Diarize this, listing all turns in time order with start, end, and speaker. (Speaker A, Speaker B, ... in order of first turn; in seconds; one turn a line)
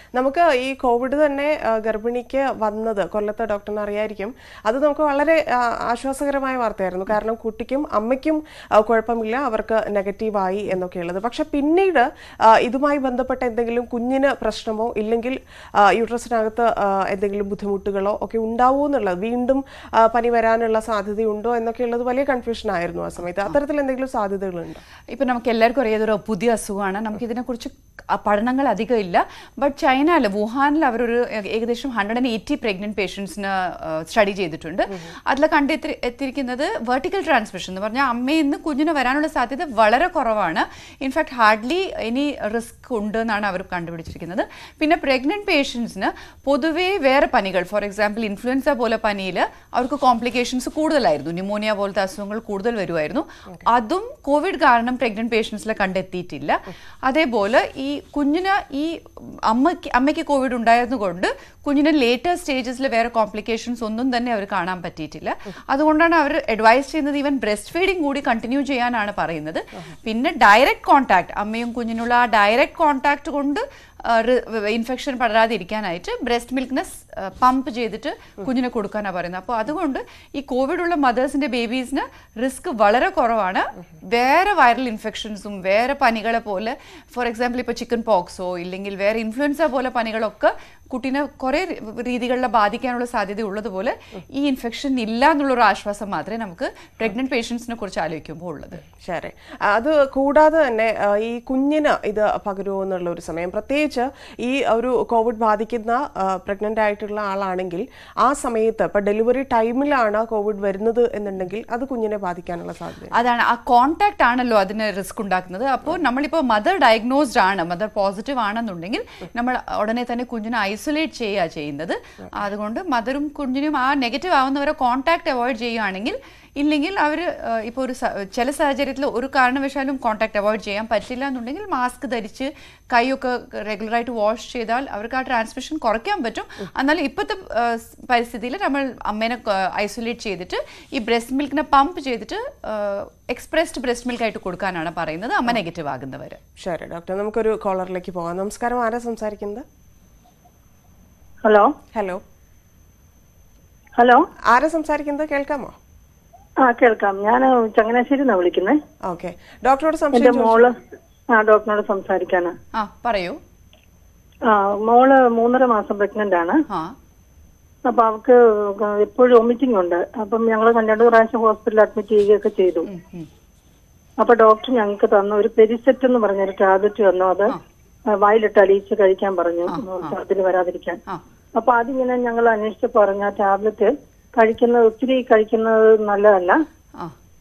Speaker A: 0.1-24.8
Speaker B: 25.1-98.8
Speaker A: 98.9-113.1
Speaker B: 113.1-146.4
Speaker A: 146.6-149.7
Speaker C: 151.4-151.7
Speaker A: 151.9-152.2
Speaker C: 154.0-154.2
Speaker A: 154.5-155.8
Speaker C: 156.6-158.8
Speaker A: 159.1-160.7
Speaker C: 160.1-160.8
Speaker C: 161.3-162.6
Speaker B: 162.7-163.4
Speaker C: 164.5-166.6
Speaker B: 166.7-166.9
Speaker C: 167.9-172.9
Speaker B: 172.9-173.3
Speaker C: 174.2-177.6
Speaker C: 178.1-181.0
Speaker B: 179.7-180.2
Speaker C: 181.6-186.6